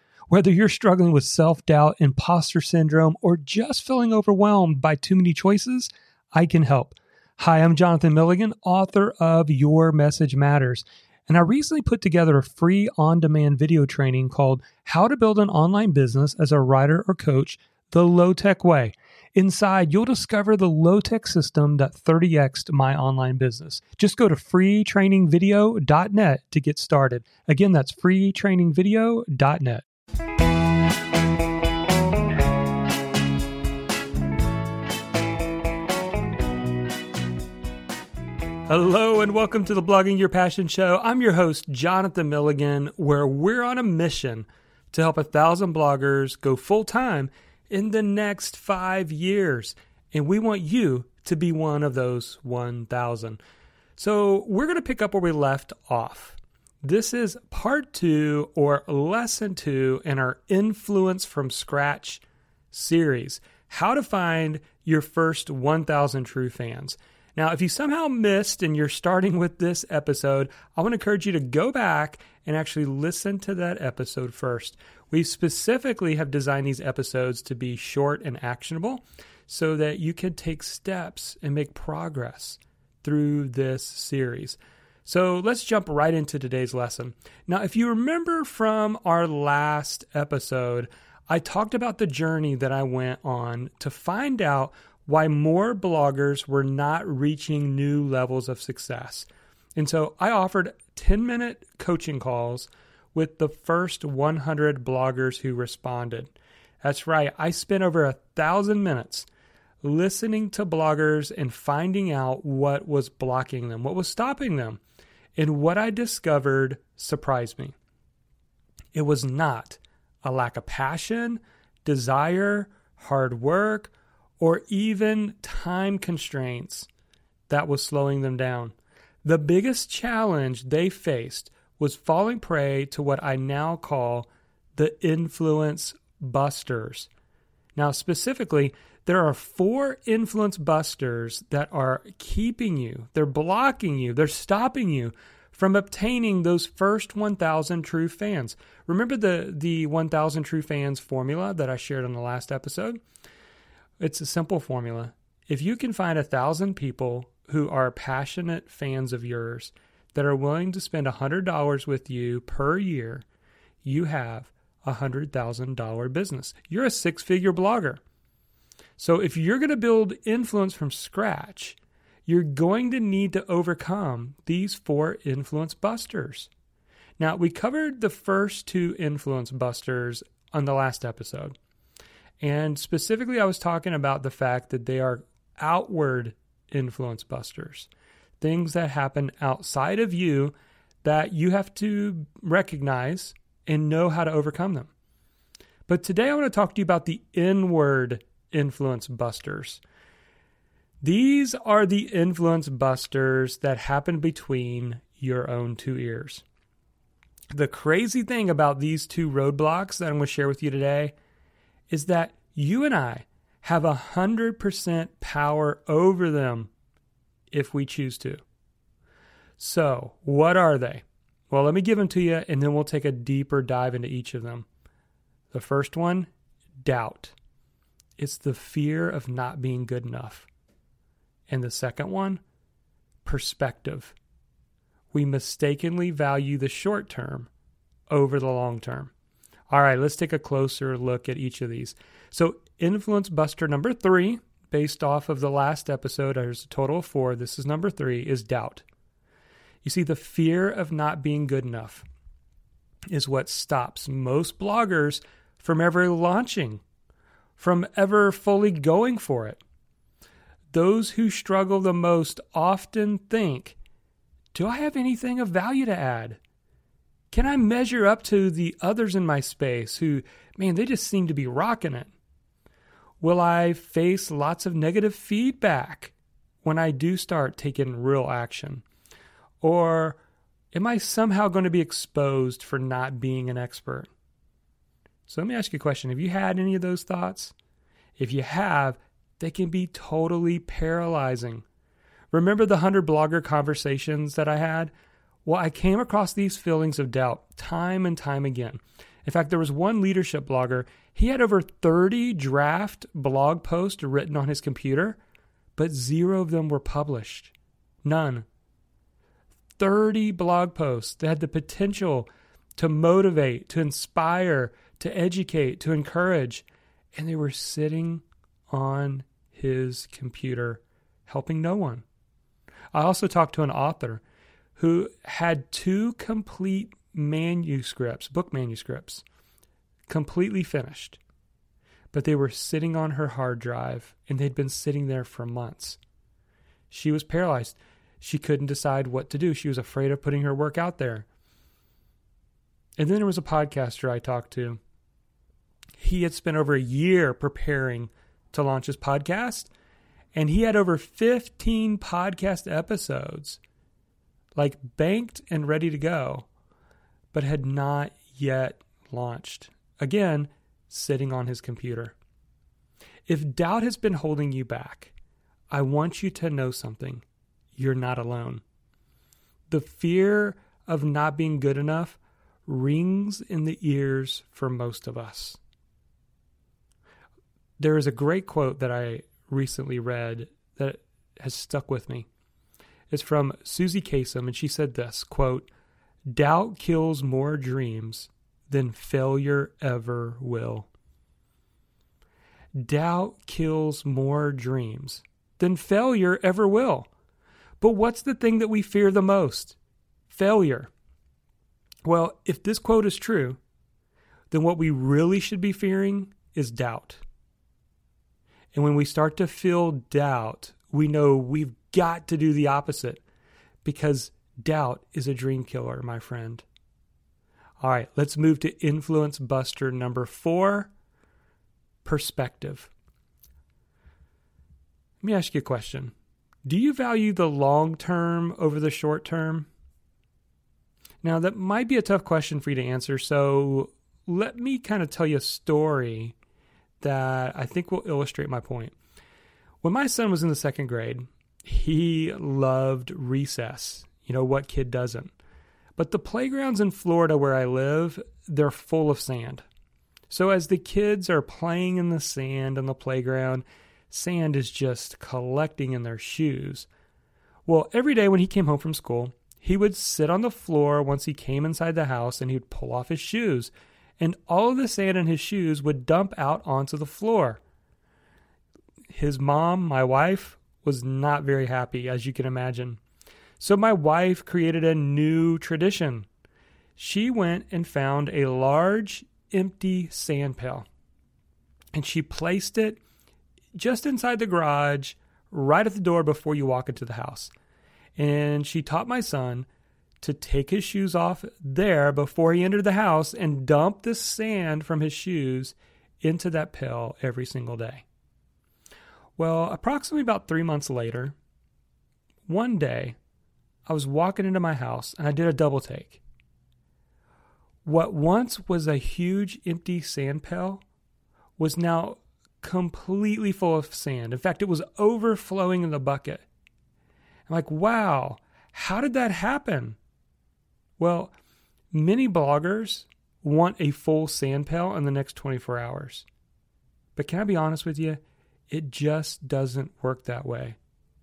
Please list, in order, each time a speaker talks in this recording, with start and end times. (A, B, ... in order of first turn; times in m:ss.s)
0:00.3-0:29.8 A
0:38.7-0:53.4 A
0:54.0-1:49.3 A
1:49.8-1:54.8 A
1:55.4-1:57.8 A
1:58.9-2:06.9 A
2:07.5-2:17.1 A
2:17.8-2:33.0 A
2:34.0-2:43.2 A
2:43.8-2:48.0 A
2:49.0-2:56.5 A
2:57.2-3:01.6 A
3:02.4-3:07.9 A
3:08.4-3:14.9 A
3:15.9-3:19.8 A
3:21.0-3:26.4 A
3:27.5-3:31.1 A
3:31.9-3:36.7 A
3:37.5-3:38.4 A
3:39.6-3:44.7 A
3:45.5-3:47.4 A
3:48.2-3:50.5 A
3:51.5-3:52.4 A
3:53.2-3:54.2 A
3:55.1-3:57.5 A
3:58.1-3:59.1 A
3:59.7-4:08.8 A
4:09.8-4:12.0 A
4:13.1-4:16.8 A
4:17.6-4:19.6 A
4:20.7-4:23.8 A
4:24.5-4:26.4 A
4:27.3-4:32.1 A
4:33.2-4:38.8 A
4:39.6-4:40.2 A
4:40.7-4:44.1 A
4:45.3-4:47.5 A
4:48.2-4:51.6 A
4:52.3-4:54.9 A
4:55.4-5:05.2 A
5:05.8-5:07.5 A
5:08.0-5:08.5 A
5:09.8-5:22.0 A
5:22.9-5:24.2 A
5:24.8-5:29.2 A
5:30.1-5:31.2 A
5:32.1-5:36.0 A
5:36.9-5:41.3 A
5:43.0-5:44.8 A
5:46.0-5:49.7 A
5:50.3-5:53.6 A
5:54.6-5:56.5 A
5:57.3-6:02.2 A
6:03.3-6:05.1 A
6:05.7-6:07.2 A
6:07.8-6:08.6 A
6:09.7-6:15.6 A
6:17.8-6:22.3 A
6:23.1-6:25.7 A
6:26.3-6:30.9 A
6:32.8-6:37.1 A
6:37.8-6:39.8 A
6:40.3-6:40.9 A
6:42.0-6:43.6 A
6:44.5-6:47.2 A
6:48.7-6:53.2 A
6:53.8-6:56.7 A
6:57.8-7:00.9 A
7:02.0-7:02.9 A
7:05.2-7:06.1 A
7:06.6-7:09.7 A
7:11.2-7:16.4 A
7:17.0-7:19.0 A
7:19.8-7:25.3 A
7:26.0-7:29.6 A
7:30.3-7:36.9 A
7:37.7-7:47.6 A
7:49.1-7:53.0 A
7:53.6-7:56.3 A
7:57.0-8:00.9 A
8:01.9-8:03.0 A
8:03.7-8:07.5 A
8:08.2-8:09.7 A
8:10.2-8:18.1 A
8:19.4-8:21.4 A
8:22.5-8:23.2 A
8:23.9-8:26.2 A
8:27.8-8:30.8 A
8:31.6-8:36.5 A
8:37.5-8:40.0 A
8:41.0-8:41.3 A
8:41.9-8:46.3 A
8:47.2-8:50.8 A